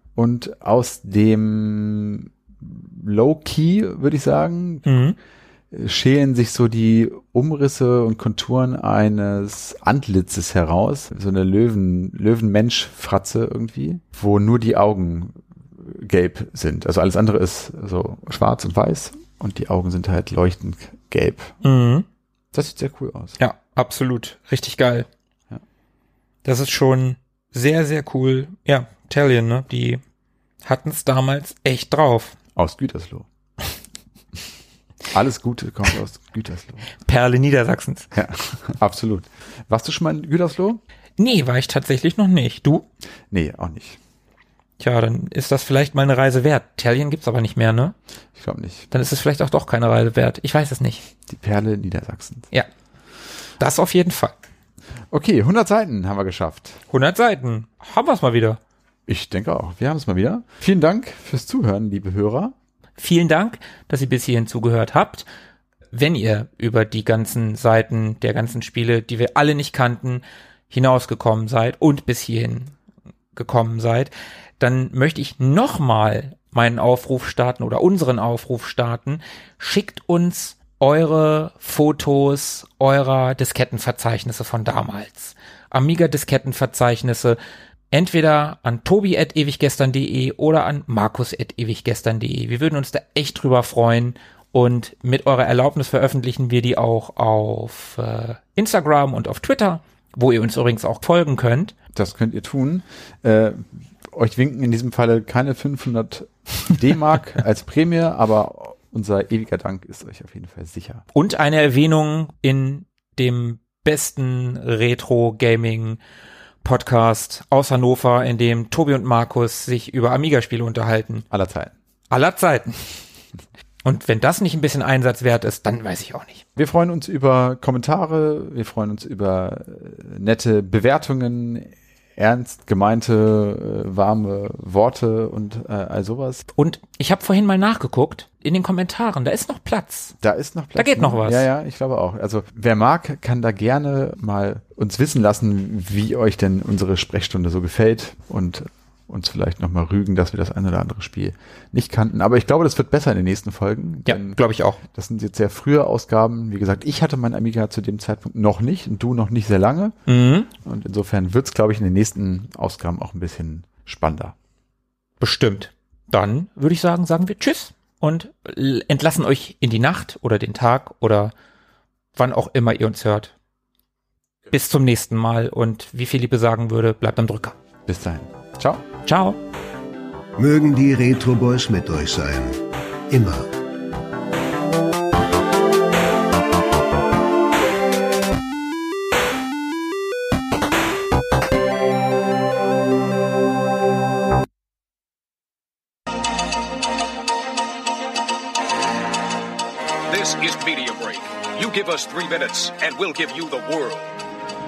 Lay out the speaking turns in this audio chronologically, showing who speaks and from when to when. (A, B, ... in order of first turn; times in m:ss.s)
0:00.2-0:05.1 A
0:04.8-0:05.2 B
0:05.7-0:21.5 A
0:21.6-0:22.0 B
0:22.5-0:23.4 A
0:23.4-0:25.1 B
0:26.4-0:30.0 B
0:30.6-0:32.4 B
0:32.6-0:33.3 A
0:35.1-0:36.9 A
0:37.0-0:38.2 B
0:38.1-0:40.8 A
0:41.2-0:42.8 B
0:43.3-0:44.0 A
0:44.8-0:48.0 B
0:48.3-0:48.9 A
0:48.9-0:51.1 B
0:51.3-0:52.5 A
0:53.6-0:54.3 B
0:55.1-0:56.8 A
0:56.9-0:58.6 B
0:59.1-1:02.5 A
1:03.0-1:05.2 B
1:05.9-1:12.7 B
1:13.3-1:27.4 B
1:27.9-1:41.7 B
1:41.9-1:51.0 A
1:51.1-1:56.0 B
1:56.6-2:01.2 B
2:01.3-2:01.7 A
2:02.1-2:03.0 B
2:03.8-2:06.4 B
2:06.6-2:16.4 A
2:16.6-2:20.2 B
2:20.2-2:40.0 A
2:20.8-2:21.5 B
2:34.0-2:34.8 B
2:40.1-2:40.5 B
2:40.6-2:44.4 A
2:45.2-2:51.3 B
2:52.1-2:53.3 B
2:54.5-2:57.6 B
2:57.9-2:58.8 A
2:59.0-2:59.4 B
3:00.4-3:03.5 C
3:20.1-3:24.1 D